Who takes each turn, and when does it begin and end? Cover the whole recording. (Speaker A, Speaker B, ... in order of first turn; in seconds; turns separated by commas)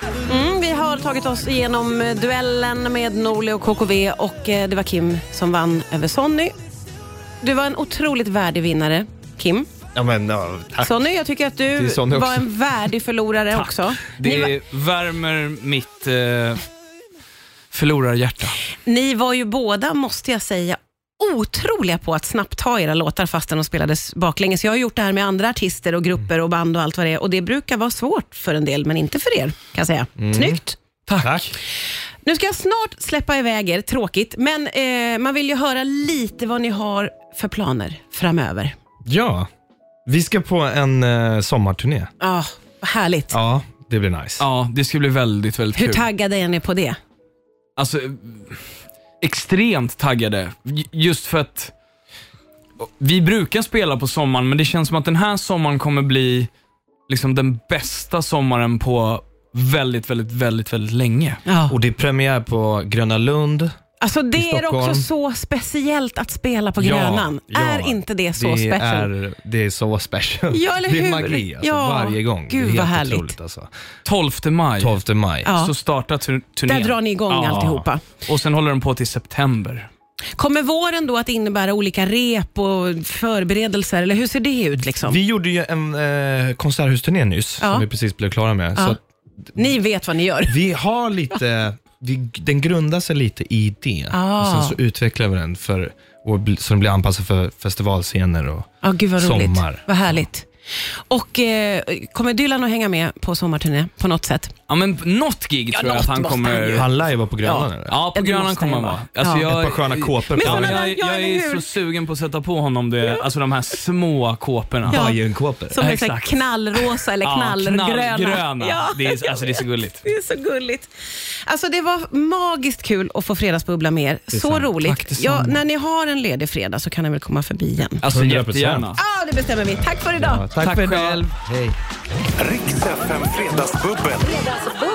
Speaker A: 0.2-6.5, Speaker A: 7.4-9.7, Speaker B: 9.9-11.1, Speaker A: 10.8-14.5, Speaker B: 11.7-12.5, Speaker C: 13.5-16.6, Speaker C: 17.7-18.6, Speaker A: 18.9-31.4, Speaker B: 30.2-30.6, Speaker B: 31.2-31.5, Speaker A: 32.2-38.8, Speaker B: 39.1-39.5, Speaker B: 40.1-42.1, Speaker A: 42.2-43.4, Speaker B: 43.3-44.5, Speaker C: 44.4-46.1, Speaker A: 45.7-47.0, Speaker C: 47.8-48.6, Speaker C: 49.2-51.7, Speaker C: 52.8-56.5, Speaker C: 57.1-61.4, Speaker A: 61.5-61.8, Speaker B: 61.7-63.7, Speaker A: 64.0-69.1, Speaker B: 64.3-65.1, Speaker B: 66.8-73.7, Speaker A: 70.5-73.4, Speaker C: 74.0-79.9, Speaker B: 74.8-75.5, Speaker A: 75.5-75.7, Speaker A: 76.7-78.0, Speaker B: 77.5-77.8, Speaker A: 80.4-85.2, Speaker B: 85.0-89.0, Speaker A: 87.6-87.9, Speaker A: 89.6-90.6, Speaker B: 90.5-100.2, Speaker A: 94.1-94.8, Speaker A: 98.8-104.5, Speaker C: 104.7-106.9, Speaker A: 105.7-106.9, Speaker B: 106.7-108.0, Speaker A: 107.4-109.5, Speaker C: 107.9-115.1, Speaker B: 109.3-110.8, Speaker A: 110.3-111.7, Speaker B: 114.9-115.8, Speaker A: 114.9-115.2, Speaker A: 115.7-120.9, Speaker C: 115.8-120.0, Speaker A: 121.5-128.0, Speaker B: 124.3-124.7, Speaker C: 124.6-125.6, Speaker C: 128.0-129.0, Speaker B: 128.0-128.9, Speaker A: 128.9-130.4, Speaker B: 130.1-131.8, Speaker C: 130.6-131.3, Speaker D: 132.4-134.7